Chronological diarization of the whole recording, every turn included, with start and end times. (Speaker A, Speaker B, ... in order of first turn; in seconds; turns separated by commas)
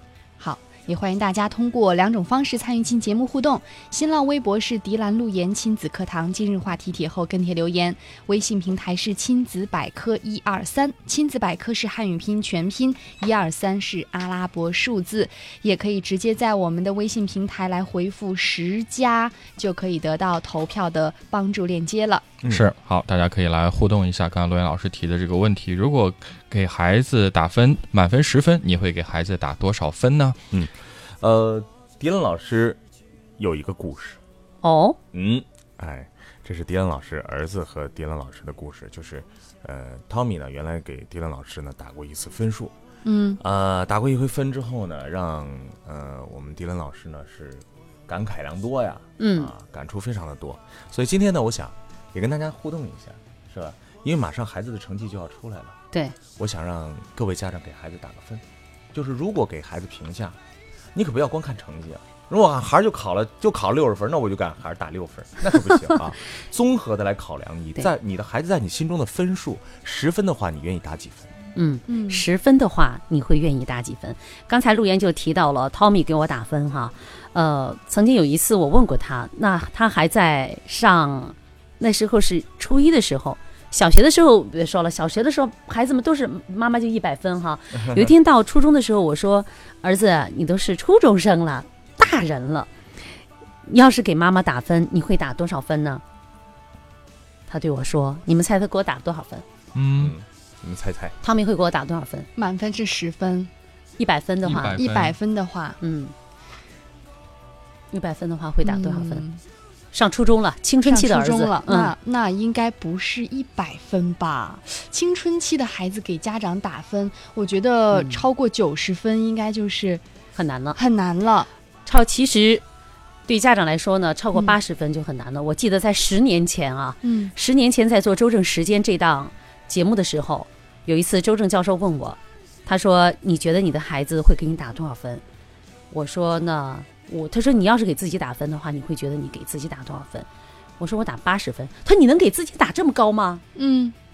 Speaker A: 0.4-22.3, Speaker B: 22.4-30.4, Speaker C: 30.5-32.8, Speaker C: 33.4-34.2, Speaker D: 34.6-35.0, Speaker C: 35.1-42.8, Speaker A: 43.0-43.4, Speaker C: 43.4-55.8, Speaker D: 49.2-49.5, Speaker C: 56.4-60.4, Speaker C: 61.0-71.3, Speaker D: 71.5-92.7, Speaker A: 71.9-72.2, Speaker D: 93.7-96.0, Speaker D: 97.5-99.4, Speaker B: 99.8-100.2, Speaker C: 100.0-101.2, Speaker D: 101.2-102.3, Speaker A: 102.4-103.5, Speaker D: 104.0-104.8, Speaker B: 104.4-105.2, Speaker A: 104.8-105.8, Speaker D: 105.8-106.1, Speaker D: 107.9-109.2, Speaker A: 108.6-109.4, Speaker D: 109.9-111.9, Speaker A: 110.8-120.0, Speaker D: 117.9-118.2, Speaker D: 120.3-120.8, Speaker A: 120.8-121.5, Speaker D: 121.9-122.6, Speaker D: 123.3-135.2, Speaker A: 127.0-127.3, Speaker D: 135.9-140.3, Speaker D: 140.8-143.4, Speaker A: 143.6-143.9